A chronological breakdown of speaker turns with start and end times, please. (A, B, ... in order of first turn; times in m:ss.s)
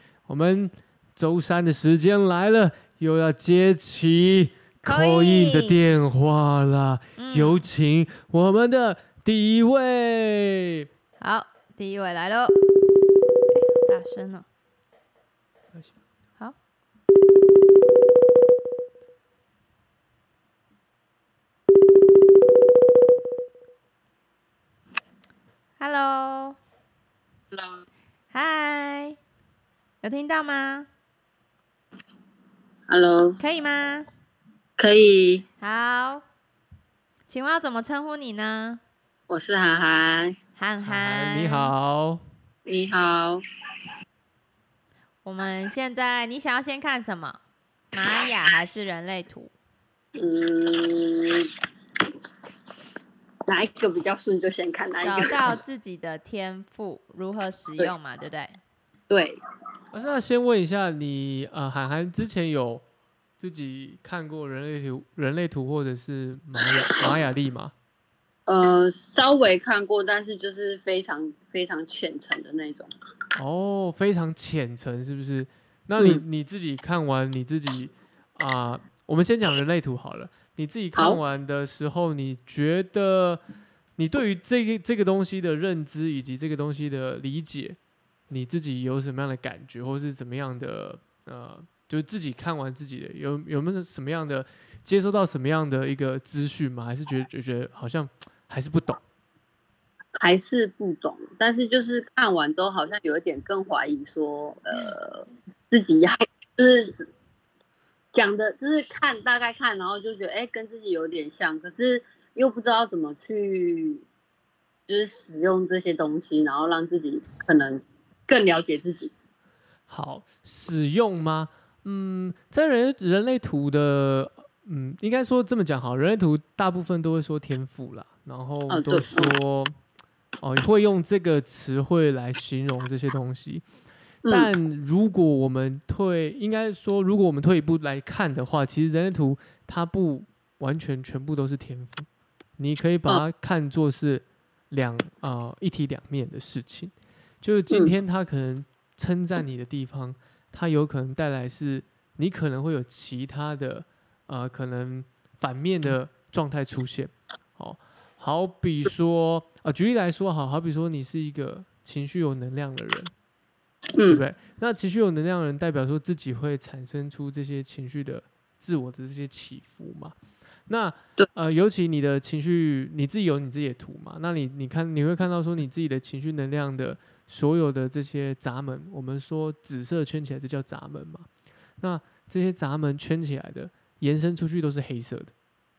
0:00.3-0:10.8 A
0:04.8-0:05.8 B
0:07.2-0:07.6 B
0:11.2-0:12.8 B
0:13.5-0:14.4 B
0:25.8-0:26.6 B
0:27.5-0:27.8 C
0:28.3-0:29.2 B
0:30.0-0:30.9 B
0:32.9-0:33.4 C
0:33.4-0:34.1 B
0:34.8-0:35.4 C
0:35.6-0:36.2 B
0:37.3-0:38.8 B
0:39.3-0:40.4 C
0:40.6-0:41.7 B
0:40.8-0:42.2 A
0:42.7-0:43.4 C
0:45.2-0:47.4 B
0:47.9-0:49.5 B
0:50.2-0:51.5 C
0:53.5-0:55.6 C
0:55.0-0:58.6 B
0:59.1-0:59.4 C
0:59.9-1:02.8 A
1:03.4-1:07.7 A
1:08.5-1:12.9 C
1:13.4-1:23.4 A
1:16.0-1:16.2 C
1:24.0-1:27.8 A
1:28.3-1:39.0 A
1:40.2-1:47.1 C
1:48.1-1:54.0 C
1:54.9-1:59.1 C
1:59.9-2:09.8 A
2:08.7-2:09.4 C
2:10.4-2:13.6 A
2:14.3-2:22.1 A
2:22.6-2:43.1 A
2:44.0-2:44.2 C
2:44.1-2:50.2 A
2:50.7-3:01.3 A
3:01.8-3:05.3 A